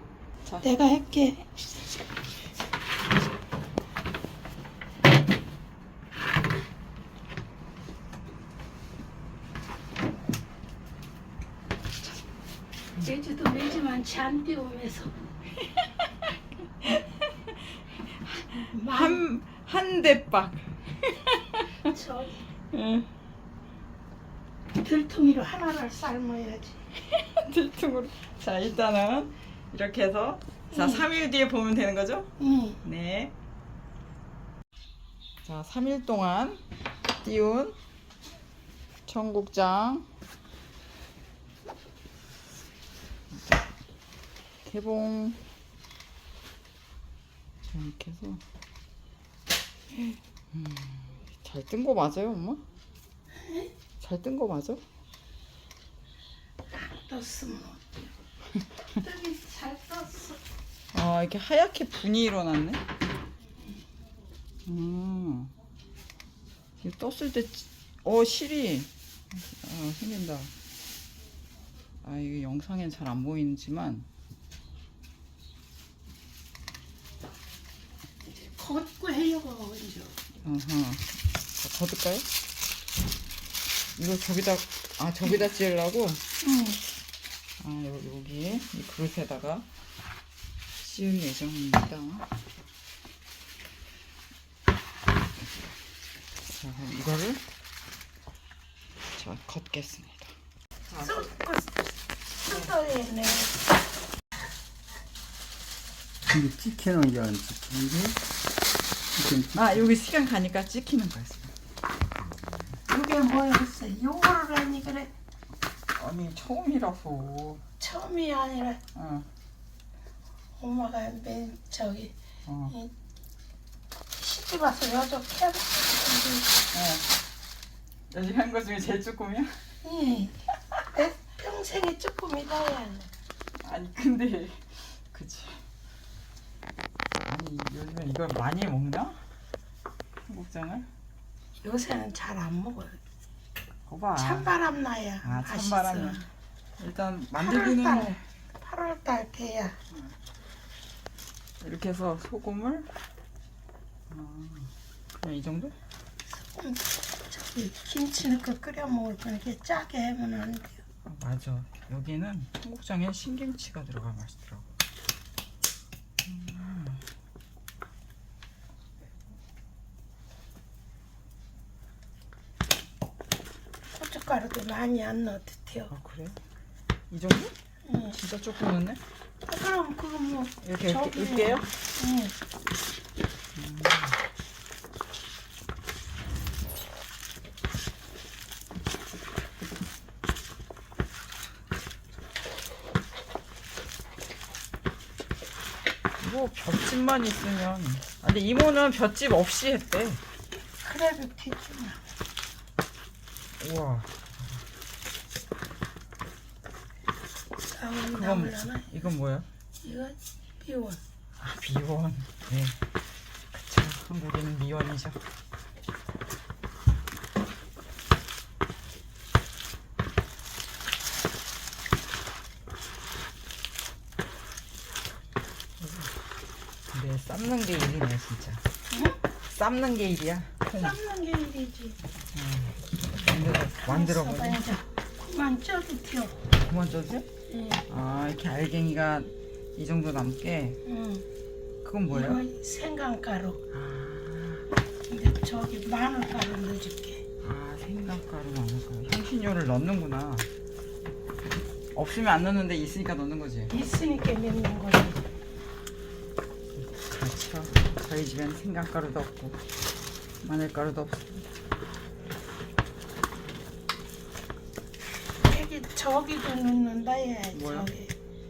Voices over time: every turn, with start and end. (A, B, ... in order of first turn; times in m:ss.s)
0:00.6-0:01.8 A
0:13.0-0:15.3 A
0:16.8-0:17.5 B
0:18.2-0:21.9 B
0:18.7-0:19.2 A
0:21.8-0:22.4 A
0:22.7-0:23.1 B
0:24.8-0:26.8 A
0:27.1-0:33.4 B
0:30.7-0:31.1 A
0:32.4-0:32.8 A
0:35.4-0:36.6 B
0:37.2-0:37.8 B
0:39.1-0:40.1 B
0:43.3-0:43.6 B
0:44.6-0:45.4 B
0:47.7-0:48.4 B
0:49.9-0:52.6 B
0:53.3-0:53.7 A
0:54.0-0:54.8 B
0:56.7-0:58.1 A
0:59.0-1:00.4 A
1:00.9-1:02.8 B
1:04.7-1:05.6 B
1:06.8-1:10.5 B
1:12.0-1:14.1 B
1:18.2-1:20.2 A
1:20.4-1:22.3 B
1:24.0-1:26.2 B
1:26.4-1:26.8 A
1:27.6-1:29.7 B
1:30.8-1:32.3 B
1:36.4-1:37.4 B
1:39.2-1:40.3 B
1:40.9-1:41.3 B
1:41.0-1:41.9 A
1:42.4-1:43.6 A
1:46.3-1:48.2 C
1:49.2-1:49.8 C
1:49.5-1:51.5 B
1:52.9-1:55.1 A
1:56.0-1:57.6 B
1:57.8-1:58.8 A
1:59.0-1:59.3 B
2:00.6-2:02.2 A
2:02.5-2:02.8 B
2:04.2-2:06.6 A
2:06.7-2:07.1 B
2:08.1-2:09.6 B
2:09.8-2:13.1 A
2:13.6-2:15.6 B
2:17.3-2:19.2 B
2:20.3-2:20.9 B
2:21.6-2:23.0 A
2:23.9-2:24.6 B
2:24.2-2:26.3 A
2:25.2-2:26.2 B
2:26.8-2:28.2 B
2:27.4-2:29.8 A
2:31.6-2:32.9 B
2:34.1-2:35.8 B
2:36.4-2:40.8 A
2:41.1-2:44.7 B
2:46.2-2:47.0 B
2:53.9-2:55.9 A
2:55.9-2:56.4 B
2:57.1-2:57.6 B
2:57.8-2:58.2 A
2:58.1-2:59.0 B
2:59.5-3:02.4 A
3:00.6-3:01.7 B
3:03.6-3:04.2 B
3:16.2-3:20.2 B
3:20.8-3:22.0 A
3:23.6-3:24.6 B
3:27.7-3:29.1 A
3:28.2-3:29.5 B
3:29.8-3:31.0 A
3:31.4-3:32.8 B
3:33.5-3:35.2 B
3:45.8-3:46.1 B
3:46.9-3:48.6 B
3:48.9-3:49.2 A
3:49.5-3:51.0 B
3:50.7-3:52.0 A
3:52.3-3:54.7 B
3:53.8-3:56.4 A
3:56.5-3:57.3 B
3:57.5-3:57.8 A
3:57.9-4:00.8 B
4:00.8-4:01.3 A
4:01.8-4:02.4 B
4:02.1-4:03.6 A
4:03.7-4:04.7 B
4:05.1-4:07.2 A
4:07.4-4:10.5 B
4:11.9-4:13.7 B
4:13.7-4:15.2 A
4:16.8-4:19.6 B
4:20.4-4:21.6 B
4:25.4-4:28.1 A
4:27.5-4:27.9 B